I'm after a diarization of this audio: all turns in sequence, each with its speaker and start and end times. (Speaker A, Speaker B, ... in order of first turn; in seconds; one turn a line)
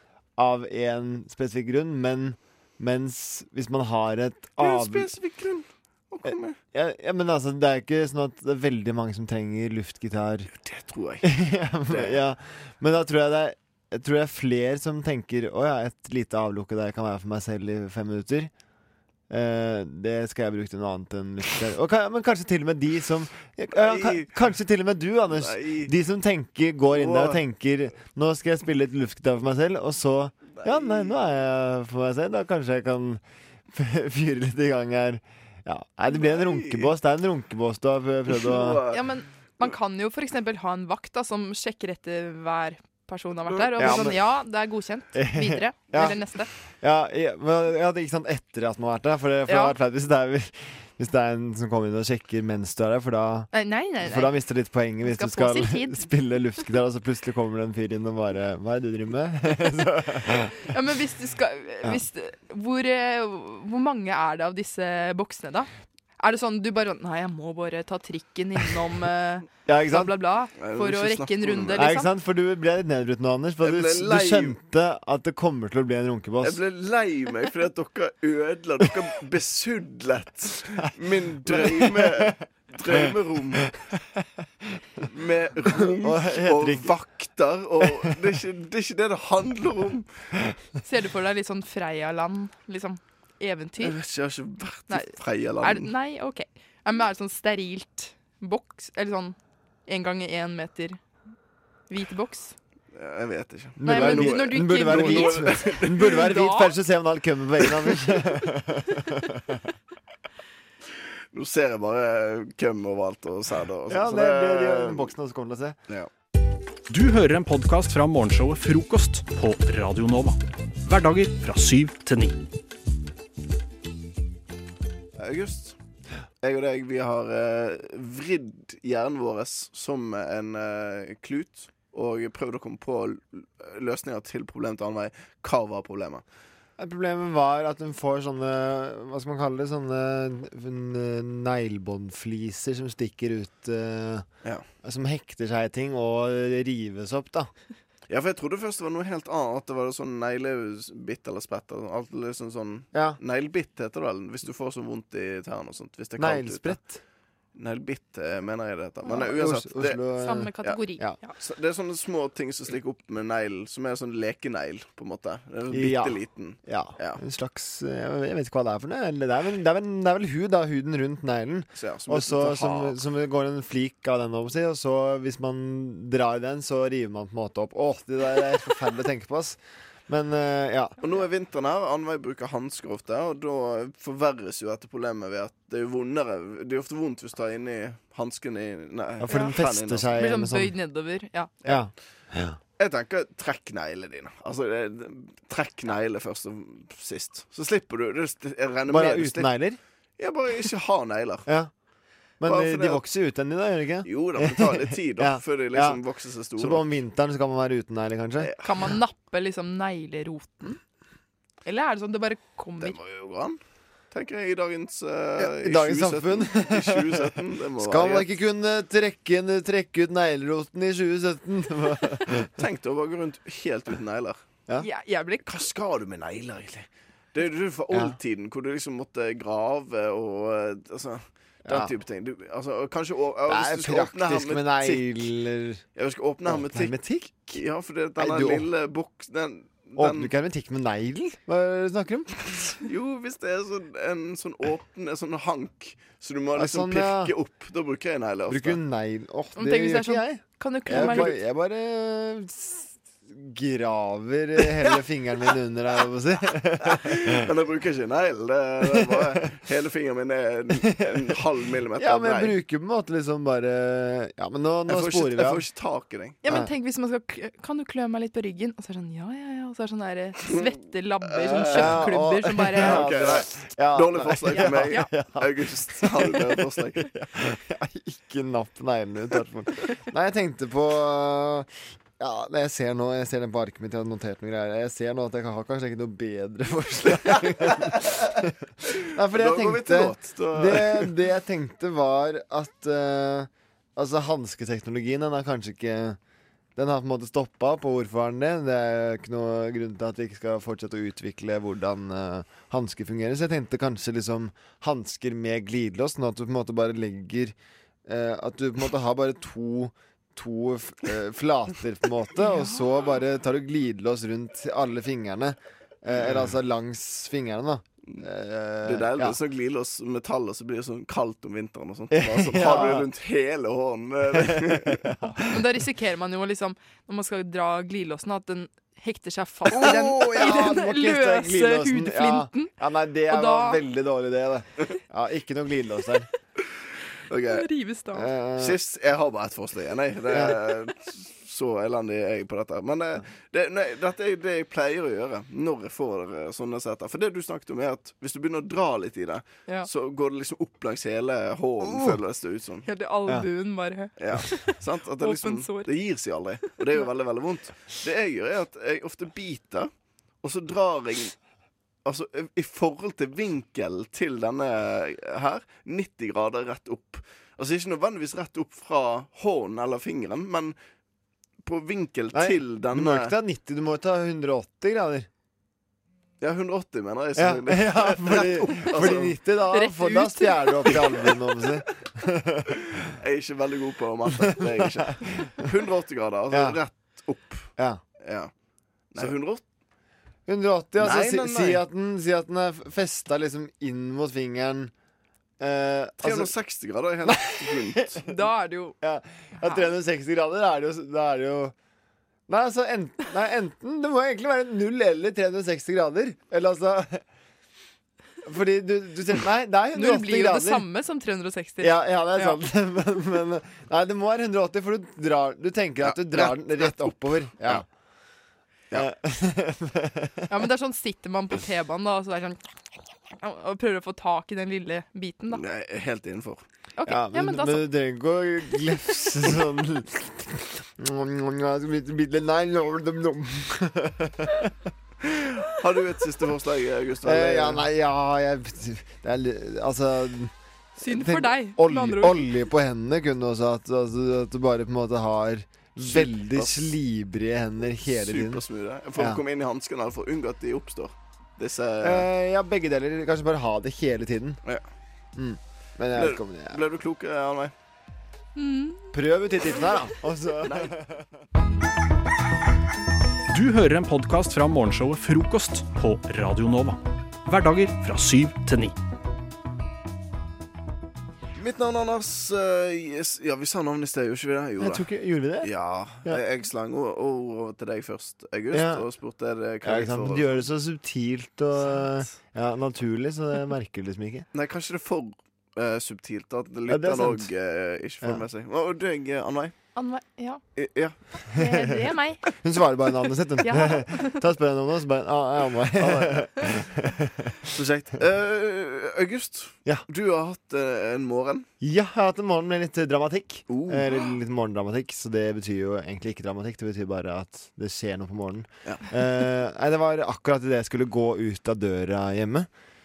Speaker A: 0.4-5.1
Speaker B: 4.6-6.6
Speaker A: 6.2-10.5
Speaker B: 10.5-11.2
Speaker A: 11.2-18.5
Speaker B: 11.9-12.2
Speaker A: 19.3-33.2
Speaker B: 23.7-24.4
Speaker B: 25.2-25.9
Speaker B: 26.9-27.4
Speaker B: 30.4-31.1
Speaker A: 33.7-38.9
Speaker B: 36.1-36.9
Speaker B: 38.3-39.1
Speaker C: 38.9-46.5
Speaker B: 43.5-44.1
Speaker A: 43.8-44.3
Speaker A: 45.1-46.3
Speaker A: 46.8-60.5
Speaker C: 49.5-49.8
Speaker C: 53.5-56.1
Speaker C: 60.6-65.7
Speaker C: 66.2-72.1
Speaker A: 69.7-70.1
Speaker B: 70.5-71.8
Speaker A: 71.7-76.6
Speaker B: 73.6-74.6
Speaker B: 76.4-83.6
Speaker A: 81.4-82.4
Speaker A: 82.9-83.7
Speaker B: 85.1-90.1
Speaker A: 85.7-87.1
Speaker A: 87.8-88.2
Speaker C: 90.8-94.0
Speaker B: 93.8-95.9
Speaker C: 94.9-99.4
Speaker C: 99.9-101.0
Speaker C: 101.9-102.5
Speaker B: 102.9-106.2
Speaker A: 103.8-109.6
Speaker C: 103.8-106.7
Speaker B: 111.3-115.1
Speaker A: 113.9-115.8
Speaker D: 116.9-122.4
Speaker B: 125.2-125.8
Speaker B: 126.4-136.2
Speaker A: 136.8-144.3
Speaker A: 144.8-147.5
Speaker B: 148.1-156.8
Speaker A: 152.9-153.2
Speaker A: 156.2-157.0
Speaker B: 157.5-160.1
Speaker A: 159.0-161.3
Speaker C: 160.1-161.4
Speaker B: 160.6-167.2
Speaker A: 165.7-181.0
Speaker B: 171.8-173.0
Speaker B: 181.0-190.2
Speaker A: 189.2-190.8
Speaker C: 189.3-191.5
Speaker A: 191.6-192.6
Speaker B: 192.8-199.6
Speaker A: 198.9-199.8
Speaker B: 200.2-201.5
Speaker A: 201.5-201.7
Speaker A: 202.4-206.0
Speaker B: 202.4-203.0
Speaker B: 204.1-206.9
Speaker A: 206.6-208.6
Speaker C: 208.6-210.8
Speaker C: 211.7-213.0
Speaker B: 212.8-213.6
Speaker B: 214.1-218.3
Speaker A: 215.4-222.5
Speaker B: 222.6-224.4
Speaker C: 224.8-225.7
Speaker B: 225.5-235.2
Speaker A: 227.9-228.2
Speaker A: 231.7-231.9
Speaker A: 233.5-235.8
Speaker B: 235.9-240.3
Speaker A: 236.5-237.6
Speaker A: 238.2-238.7
Speaker A: 240.0-242.7
Speaker B: 242.8-248.8
Speaker A: 246.6-247.3
Speaker A: 248.5-257.4
Speaker C: 249.6-251.4
Speaker B: 250.9-251.3
Speaker B: 256.9-262.6
Speaker A: 258.8-259.6
Speaker A: 260.8-261.1
Speaker A: 262.0-265.7
Speaker B: 264.9-266.4
Speaker C: 266.4-273.0
Speaker B: 271.4-272.1
Speaker A: 271.7-288.4
Speaker B: 272.7-277.1
Speaker C: 274.5-275.2
Speaker B: 287.1-287.9
Speaker B: 289.0-291.1
Speaker A: 289.1-296.2
Speaker A: 296.8-307.6
Speaker A: 308.1-319.4
Speaker C: 312.4-313.2
Speaker B: 316.2-316.5
Speaker B: 318.9-325.0
Speaker A: 322.1-323.1
Speaker A: 324.3-325.6
Speaker C: 325.3-332.8
Speaker A: 329.7-336.3
Speaker B: 329.7-330.6
Speaker C: 333.3-333.8
Speaker B: 337.3-337.7
Speaker C: 337.5-338.3
Speaker A: 338.1-338.8
Speaker B: 338.6-352.9
Speaker A: 340.3-340.6
Speaker A: 351.8-352.2
Speaker C: 352.9-356.0
Speaker B: 354.2-359.9
Speaker C: 356.6-357.0
Speaker B: 360.4-361.4
Speaker B: 362.1-370.8
Speaker B: 371.6-373.4
Speaker A: 372.3-375.3
Speaker B: 376.4-379.4
Speaker A: 377.4-383.1
Speaker C: 379.7-381.0
Speaker B: 383.2-388.5
Speaker A: 384.3-385.7
Speaker A: 386.5-386.8
Speaker A: 387.8-388.0
Speaker B: 389.1-389.6
Speaker A: 390.5-394.9
Speaker B: 391.0-391.8
Speaker A: 395.6-396.5
Speaker B: 396.2-398.2
Speaker A: 397.2-398.3
Speaker C: 398.2-399.0
Speaker A: 399.0-401.7
Speaker C: 399.6-399.9
Speaker A: 402.5-407.2
Speaker A: 408.4-410.9
Speaker C: 409.9-412.6
Speaker A: 411.8-417.9
Speaker B: 416.0-417.8
Speaker A: 418.9-420.4
Speaker C: 420.5-422.7
Speaker C: 423.4-425.6
Speaker B: 425.5-426.6
Speaker C: 427.0-427.9
Speaker A: 427.1-434.7
Speaker B: 435.4-437.8
Speaker A: 437.2-448.6
Speaker C: 441.0-442.4
Speaker B: 446.0-447.0
Speaker B: 448.0-452.3
Speaker A: 449.1-449.4
Speaker A: 452.0-454.6
Speaker A: 455.4-456.8
Speaker B: 456.1-457.7
Speaker C: 458.6-459.2
Speaker A: 459.1-461.2
Speaker B: 460.6-460.9
Speaker D: 463.5-468.9
Speaker B: 471.6-475.1
Speaker A: 474.8-476.4
Speaker B: 475.6-480.7
Speaker A: 478.7-479.1
Speaker A: 479.8-484.5
Speaker B: 481.9-482.4
Speaker B: 484.5-489.8
Speaker A: 486.9-487.5
Speaker C: 489.9-490.6
Speaker B: 490.8-491.2
Speaker A: 491.5-497.3
Speaker C: 492.1-492.4
Speaker C: 493.6-494.4
Speaker B: 496.0-496.7
Speaker B: 497.8-501.7
Speaker A: 501.8-512.7
Speaker B: 503.7-504.4